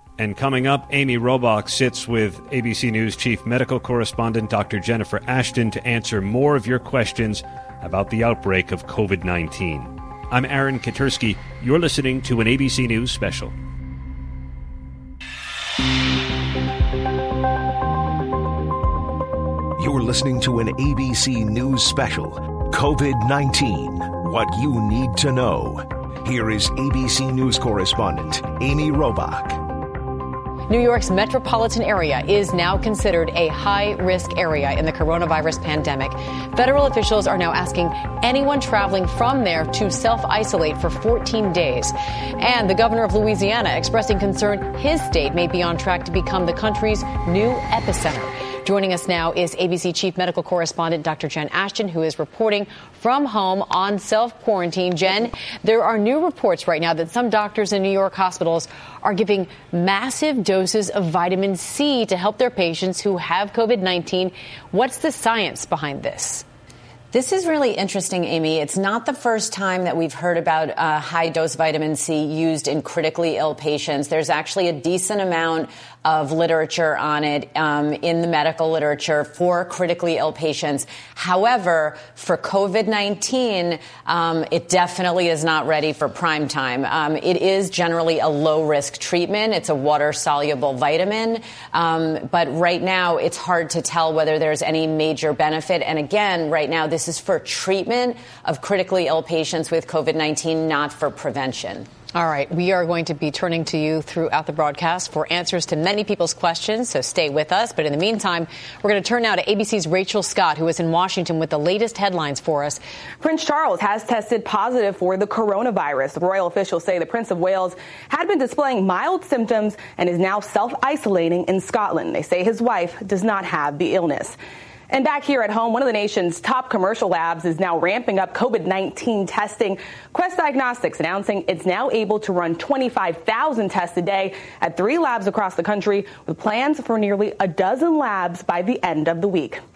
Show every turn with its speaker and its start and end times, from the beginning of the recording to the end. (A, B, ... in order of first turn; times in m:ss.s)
0:00.2-0:13.5 A
0:19.8-0:29.6 B
0:30.7-1:06.4 C
1:07.1-1:41.9 D
1:42.1-1:52.8 C
1:53.2-2:04.4 E
2:04.9-2:19.6 E